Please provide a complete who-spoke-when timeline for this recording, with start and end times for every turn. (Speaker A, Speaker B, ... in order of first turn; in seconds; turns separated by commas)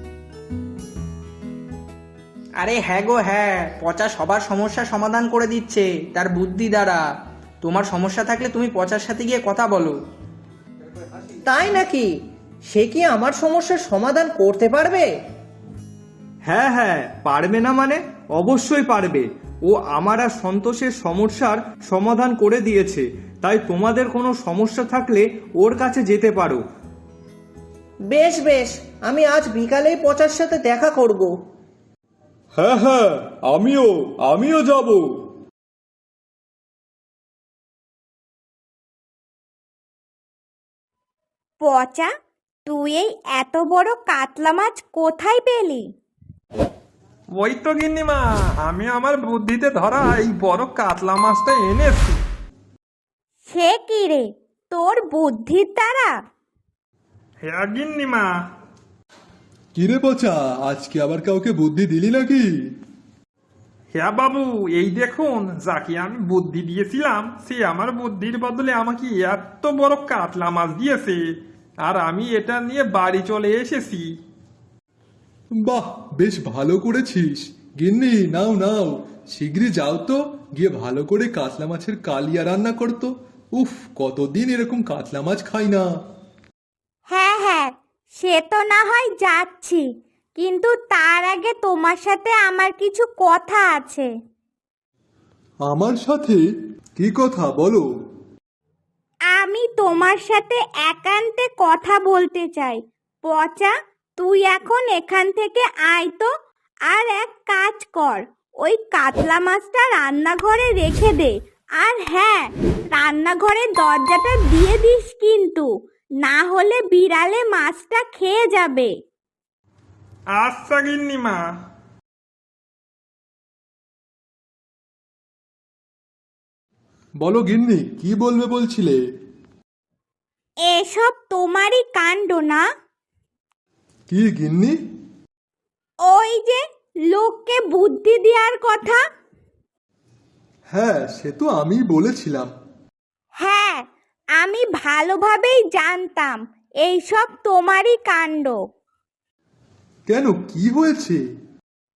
Speaker A: 2.6-7.0, Speaker A: 7.6-10.0, Speaker B: 11.4-15.2, Speaker C: 16.5-26.6, Speaker B: 28.1-31.4, Speaker C: 32.5-35.0, Speaker D: 41.6-42.1, Speaker D: 42.6-45.9, Speaker E: 47.3-52.2, Speaker D: 53.5-56.1, Speaker E: 57.5-58.3, Speaker F: 59.7-62.5, Speaker E: 63.9-71.2, Speaker E: 71.8-74.0, Speaker F: 75.6-85.8, Speaker D: 87.1-94.1, Speaker F: 95.7-96.4, Speaker F: 97.0-97.8, Speaker D: 99.3-106.3, Speaker D: 106.9-115.7, Speaker D: 116.2-118.9, Speaker E: 120.3-121.4, Speaker F: 127.2-129.0, Speaker D: 130.6-132.7, Speaker F: 134.1-134.7, Speaker D: 136.0-139.0, Speaker F: 140.7-142.5, Speaker D: 143.4-143.8, Speaker D: 144.4-148.6, Speaker F: 150.1-151.2